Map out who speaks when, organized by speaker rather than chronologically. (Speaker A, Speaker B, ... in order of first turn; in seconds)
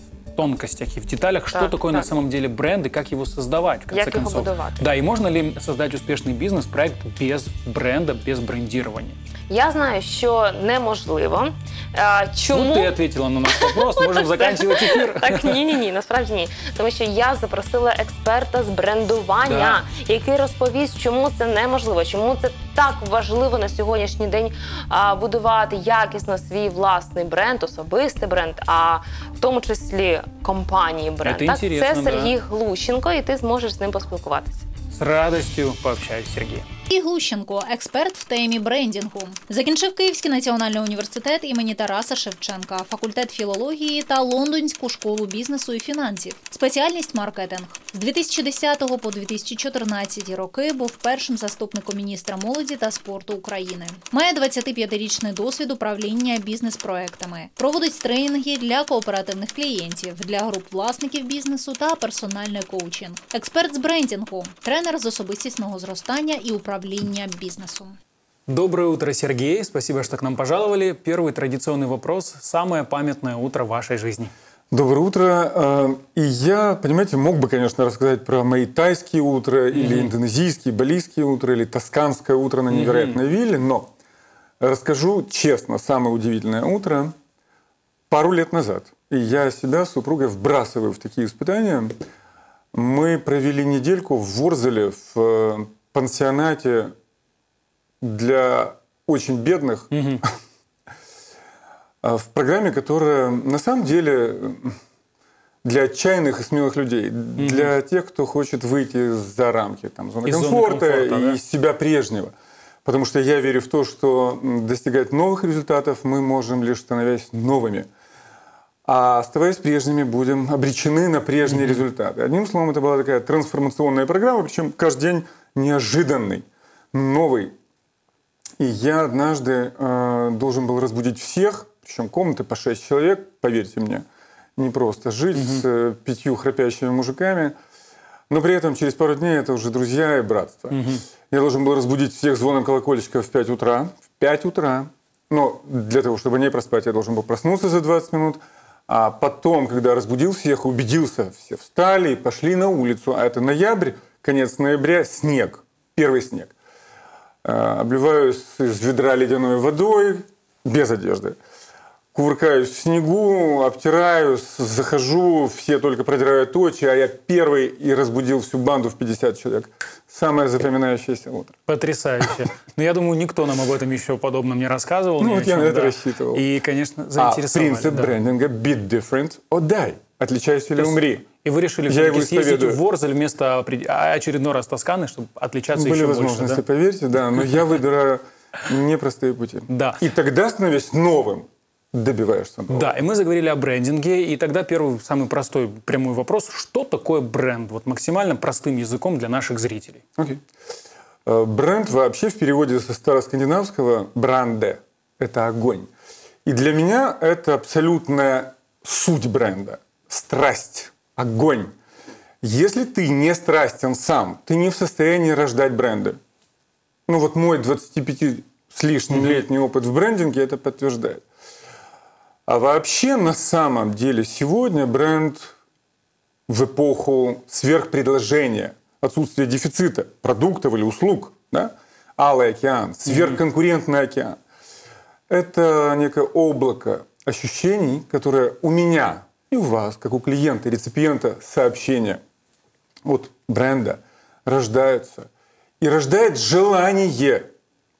Speaker A: 0.3-9.2, 12.5-15.5, 19.4-19.8, 31.2-32.3, 34.9-36.6, 68.5-74.3, 79.7-80.1, 82.7-83.2, 99.9-100.2, 107.4-107.7, 110.2-111.4, 121.4-121.8, 135.3-135.6, 140.7-141.0, 171.7-178.1, 180.8-186.6, 189.7-190.0, 192.7-200.0, 219.1-219.4, 233.1-233.4
Speaker B: 1.5-2.1, 3.9-4.9, 9.5-34.6
Speaker C: 36.9-67.9
Speaker D: 74.7-83.9, 84.6-87.1, 88.1-91.9, 92.7-96.9, 98.0-100.2, 102.0-104.8, 105.6-112.3, 112.8-117.9, 118.8-127.5, 128.6-134.0, 134.6-137.6, 138.3-156.5, 157.4-161.4, 162.1-171.6, 175.2-176.5, 177.2-181.3, 181.9-182.8, 185.7-192.9, 201.2-205.9, 206.4-211.7, 212.4-216.2, 217.1-221.2, 222.5-225.6, 226.5-234.4, 235.3-242.2, 243.0-245.3, 245.8-247.5